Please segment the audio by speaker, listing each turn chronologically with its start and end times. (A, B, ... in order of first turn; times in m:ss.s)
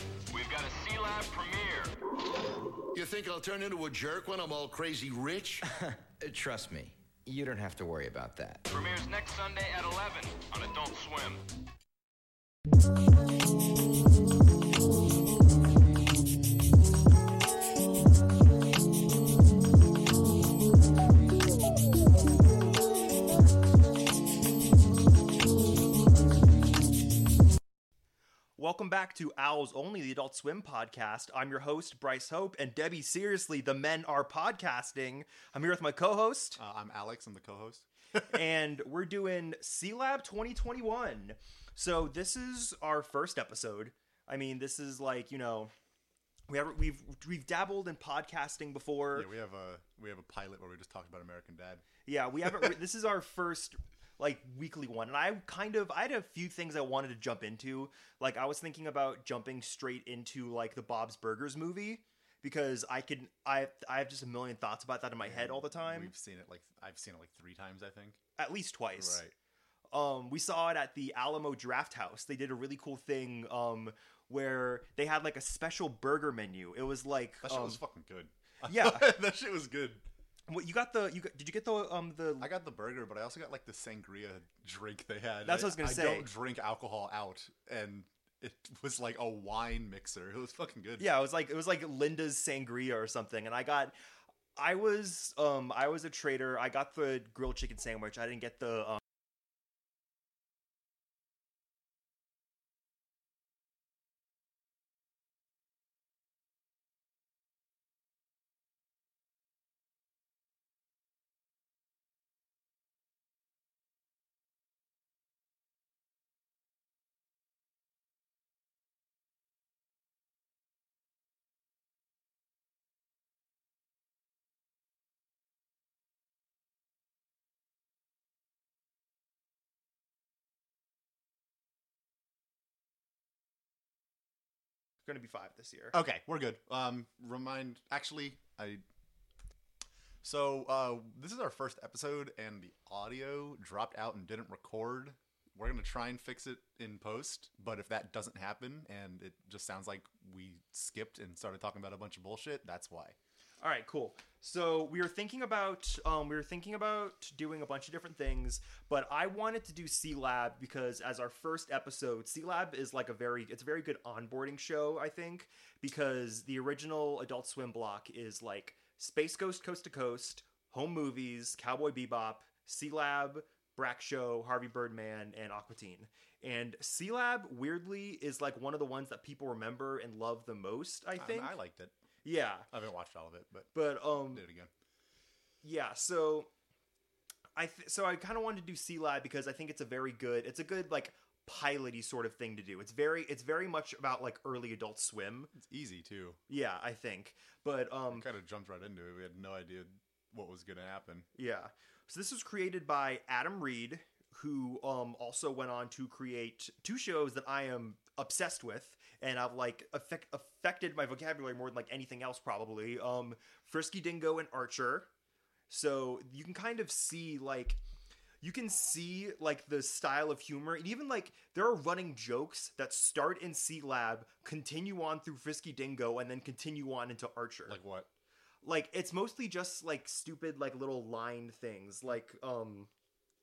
0:00.3-0:02.0 A
0:02.9-0:05.6 B
0:05.7-0:08.6 C
0:08.7-0:11.4 A
0:28.6-0:36.6 D
0:36.6-0:38.4 E
0:38.3-0:45.7 D
0:46.5-0:49.3 D
0:49.1-0:51.8 E
0:52.0-1:06.1 D
1:05.2-1:08.2 E
1:08.4-1:09.2 D
1:09.0-1:09.3 E
1:09.9-1:17.8 D
1:17.4-1:20.0 E
1:18.6-1:19.1 D
1:20.5-1:22.5 D
1:22.4-1:31.1 E
1:25.4-1:26.3 D
1:31.0-1:33.9 D
1:34.6-1:39.0 D
2:15.0-2:15.9 D
2:15.9-2:18.8 E
2:20.2-2:33.2 E
2:33.6-3:01.6 D
3:01.2-3:01.9 E
3:02.2-3:02.7 D
3:02.7-3:04.7 E
3:03.7-3:04.4 D
3:05.6-3:06.5 D
3:07.6-3:15.5 D
3:15.5-3:16.4 E
3:16.5-3:18.2 D
3:18.1-3:21.3 E
3:21.4-3:35.1 D
3:35.7-3:37.8 D
3:38.4-3:47.8 D
3:47.7-3:48.1 E
3:48.6-3:52.9 D